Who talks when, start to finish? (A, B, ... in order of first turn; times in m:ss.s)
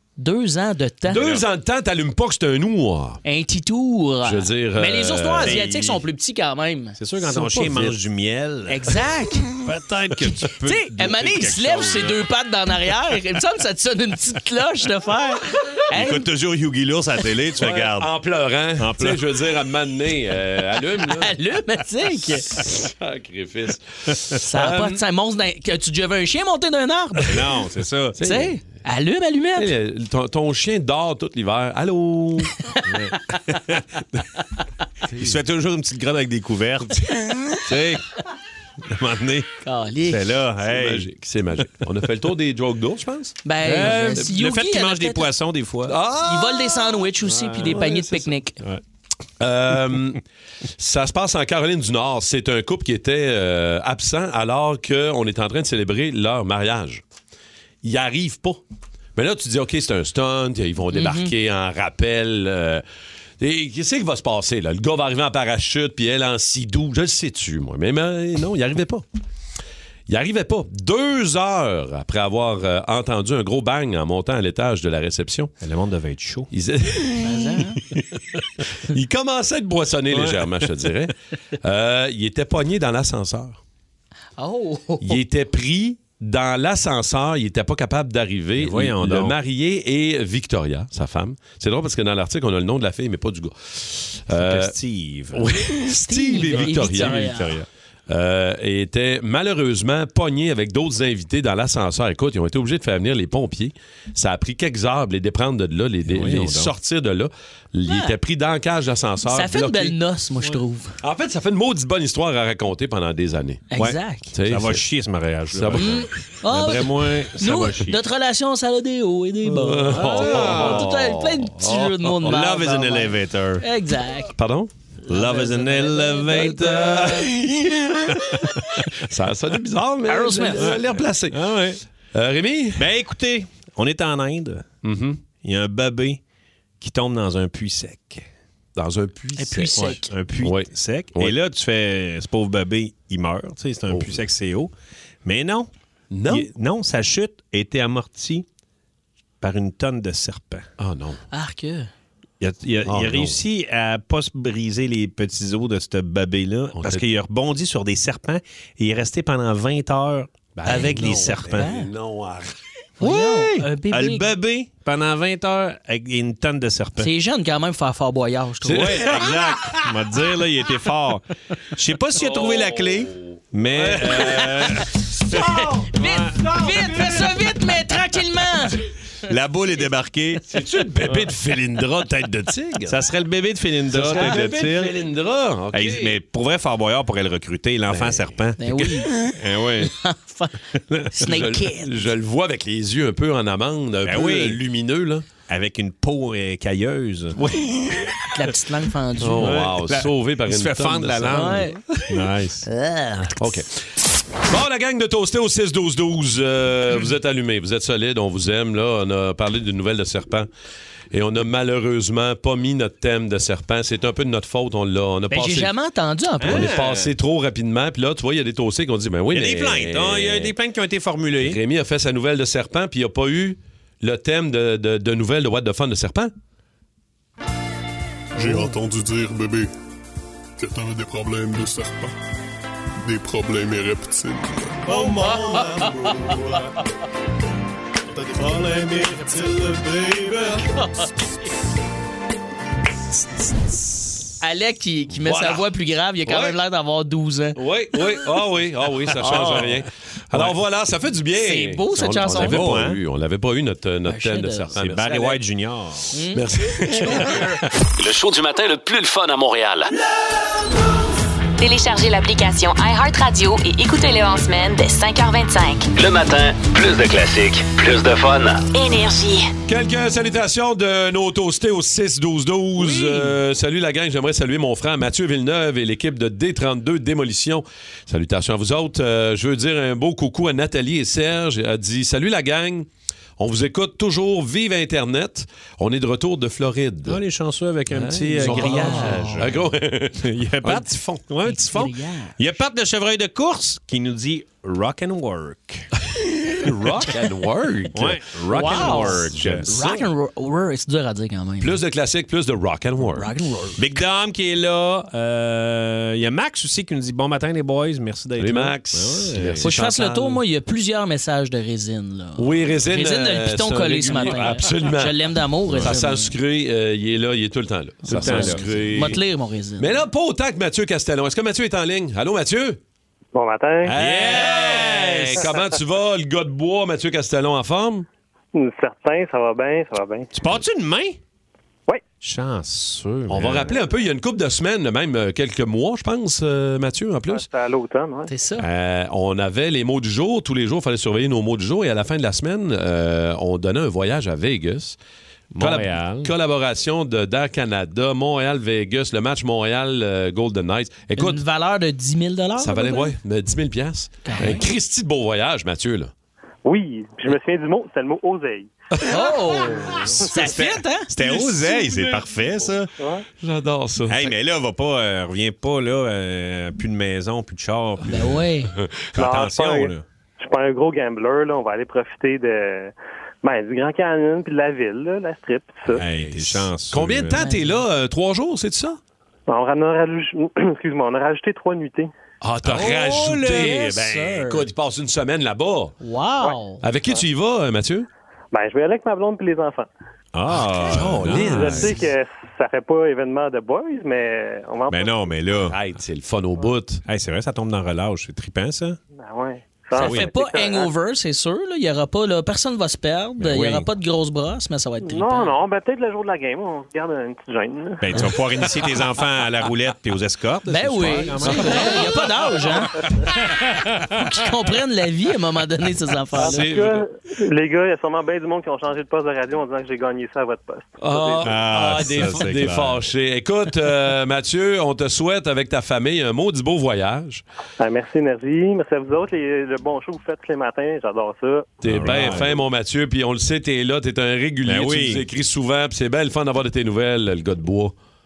0:00.2-0:01.3 A
0:01.1-0:03.2 B
0:03.2-0:07.0 A
0:04.2-0:05.6 B
0:05.4-0:06.0 C
0:07.0-0:12.2 C
0:07.3-0:08.0 B
0:08.7-0:09.5 A
0:10.6-0:16.2 A
0:15.9-0:18.1 C
0:17.6-0:21.4 B
0:18.8-0:19.2 C
0:21.0-0:22.4 A
0:22.2-0:25.0 B
0:24.4-0:27.3 A
0:27.3-0:28.2 C
0:28.2-0:28.6 B
0:28.2-0:29.7 A
0:29.6-0:32.5 B
0:32.8-0:34.2 C
0:35.1-0:38.1 C
0:38.8-0:39.5 C
0:39.6-0:40.4 A
0:40.0-0:41.1 C
0:40.6-0:44.2 B
0:43.4-0:45.3 A
0:43.6-0:46.0 C
0:45.9-0:47.0 B
0:46.2-0:48.6 A
0:47.2-0:47.9 C
0:47.6-0:48.3 B
0:49.4-0:50.2 B
0:50.8-0:57.0 B
0:57.8-0:58.6 B
0:59.2-1:02.8 B
1:00.9-1:01.3 A
1:03.4-1:09.0 B
1:10.1-1:15.5 B
1:15.6-1:16.5 C
1:16.5-1:17.6 B
1:17.2-1:17.8 A
1:18.9-1:23.6 B
1:20.1-1:20.7 C
1:24.4-1:25.2 A
1:25.0-1:34.7 B
1:28.6-1:29.4 C
1:34.3-1:35.5 C
1:35.3-1:37.5 B
1:35.9-1:37.6 A
1:36.4-1:37.6 C
1:38.1-1:50.0 B
1:46.0-1:46.7 C
1:47.8-1:48.1 A
1:49.3-1:51.0 A
1:51.0-1:53.7 B
1:53.7-1:54.3 A
1:53.8-1:58.0 C
1:54.3-1:54.8 B
1:55.5-1:56.1 B
1:55.8-2:04.3 A
1:59.5-2:01.9 B
1:59.8-2:00.9 C
2:02.1-2:03.6 C
2:04.4-2:04.7 B
2:05.0-2:07.3 A
2:05.1-2:07.3 C
2:06.3-2:11.4 B
2:10.1-2:10.7 A
2:10.6-2:11.8 C
2:12.1-2:12.9 B
2:12.8-2:14.6 C
2:14.8-2:15.2 B
2:15.4-2:16.2 C
2:16.8-2:18.3 C
2:18.8-2:21.3 B
2:19.4-2:20.1 A
2:19.7-2:24.7 C
2:23.9-2:24.2 B
2:25.2-2:25.7 C
2:26.1-2:26.5 B
2:26.3-2:28.4 C
2:29.4-2:30.6 C
2:30.8-2:31.2 B
2:31.3-2:31.9 A
2:32.4-2:41.7 C
2:32.8-2:33.4 B
2:36.8-2:37.0 B
2:40.6-2:42.5 B
2:41.4-2:41.9 A
2:43.0-2:44.3 A
2:43.0-2:47.1 C
2:47.0-2:49.0 A
2:48.6-2:49.9 B
2:48.7-2:55.0 C
2:52.2-2:57.4 B
2:55.3-2:58.8 A
2:56.0-2:57.1 C
2:59.3-3:00.4 C
3:00.5-3:03.0 B
3:02.8-3:05.0 C
3:03.9-3:06.2 B
3:05.7-3:09.9 C
3:07.9-3:08.3 B
3:08.6-3:09.2 A
3:09.8-3:10.6 A
3:10.7-3:11.2 C
3:11.1-3:12.1 A
3:11.2-3:15.2 B
3:14.0-3:14.6 C
3:15.5-3:18.1 C
3:18.3-3:19.6 A
3:19.2-3:21.6 B
3:19.4-3:22.7 C
3:21.3-3:21.8 A
3:23.4-3:23.8 B
3:24.4-3:30.5 B
3:31.1-3:35.7 B
3:35.3-3:36.7 A
3:36.4-3:37.1 C
3:36.4-3:40.5 B
3:39.3-3:41.6 C
3:41.4-3:46.3 B
3:48.4-3:48.8 C
3:48.4-3:49.7 D
3:50.6-3:52.1 D
3:53.0-3:54.9 D
3:54.8-3:56.6 C
3:55.2-3:56.4 A
3:58.1-4:00.6 C
4:00.7-4:01.1 A
4:04.4-4:07.6 A
4:05.2-4:05.7 B
4:06.2-4:06.6 B
4:07.6-4:15.4 B
4:09.2-4:09.8 A
4:09.3-4:09.6 C
4:10.3-4:10.6 C
4:11.4-4:12.8 A
4:12.3-4:13.0 C
4:14.0-4:14.7 A
4:14.7-4:16.1 C
4:16.1-4:16.4 A
4:16.3-4:17.5 B
4:18.0-4:19.9 E
4:21.6-4:25.9 F
4:25.9-4:28.6 E
4:28.7-4:29.5 F
4:29.7-4:47.2 B
4:32.8-4:33.3 A
4:47.0-4:49.6 C
4:47.9-4:51.2 B
4:48.4-4:49.5 A
4:50.2-4:55.9 C
4:51.4-4:52.3 A
4:56.5-5:00.0 B
4:57.9-4:59.9 C
4:58.5-5:01.8 A
5:01.6-5:03.3 B
5:03.1-5:03.8 A
5:03.8-5:09.7 C
5:08.4-5:10.4 B
5:09.6-5:16.3 A
5:12.4-5:19.2 B
5:18.0-5:20.0 A
5:18.1-5:19.0 C
5:19.8-5:22.8 B
5:23.3-5:23.9 G
5:23.9-5:25.5 C
5:23.9-5:28.1 B
5:28.5-5:30.3 G
5:30.3-5:31.2 C
5:32.2-5:33.7 C
5:33.3-5:37.5 B
5:37.3-5:38.3 G
5:38.3-5:38.6 A
5:38.6-5:45.0 B
5:45.5-5:46.3 C
5:45.6-5:51.4 B
5:51.2-5:53.1 A
5:52.6-5:56.1 B
5:54.2-5:54.6 A
5:56.6-5:58.7 G
5:59.1-6:01.1 A
5:59.7-6:02.9 C
6:01.2-6:02.3 B
6:03.0-6:03.2 G
6:03.4-6:04.3 B
6:04.1-6:08.5 C
6:08.1-6:08.7 A
6:09.1-6:10.0 C
6:09.2-6:16.0 G
6:15.9-6:17.4 C
6:16.3-6:19.0 B
6:17.4-6:17.8 A
6:19.5-6:22.1 G
6:22.4-6:26.0 B
6:22.7-6:24.5 C
6:22.7-6:24.6 A
6:26.0-6:26.8 A
6:26.8-6:28.1 B
6:28.5-6:29.9 G
6:30.3-6:32.0 C
6:30.9-6:32.0 B
6:31.3-6:35.2 G
6:34.9-6:35.8 C
6:35.7-6:37.0 B
6:37.0-6:39.0 C
6:39.2-6:40.9 G
6:39.9-6:45.6 A
6:40.0-6:40.3 C
6:43.4-6:43.9 C
6:45.0-6:48.0 G
6:48.0-6:52.1 C
6:50.7-6:53.1 A
6:53.9-6:56.7 A
6:56.4-7:01.5 G
6:56.4-6:57.0 B
7:01.0-7:07.4 B
7:01.4-7:03.1 C
7:07.8-7:11.7 G
7:11.8-7:17.9 B
7:11.8-7:12.6 C
7:14.6-7:15.2 C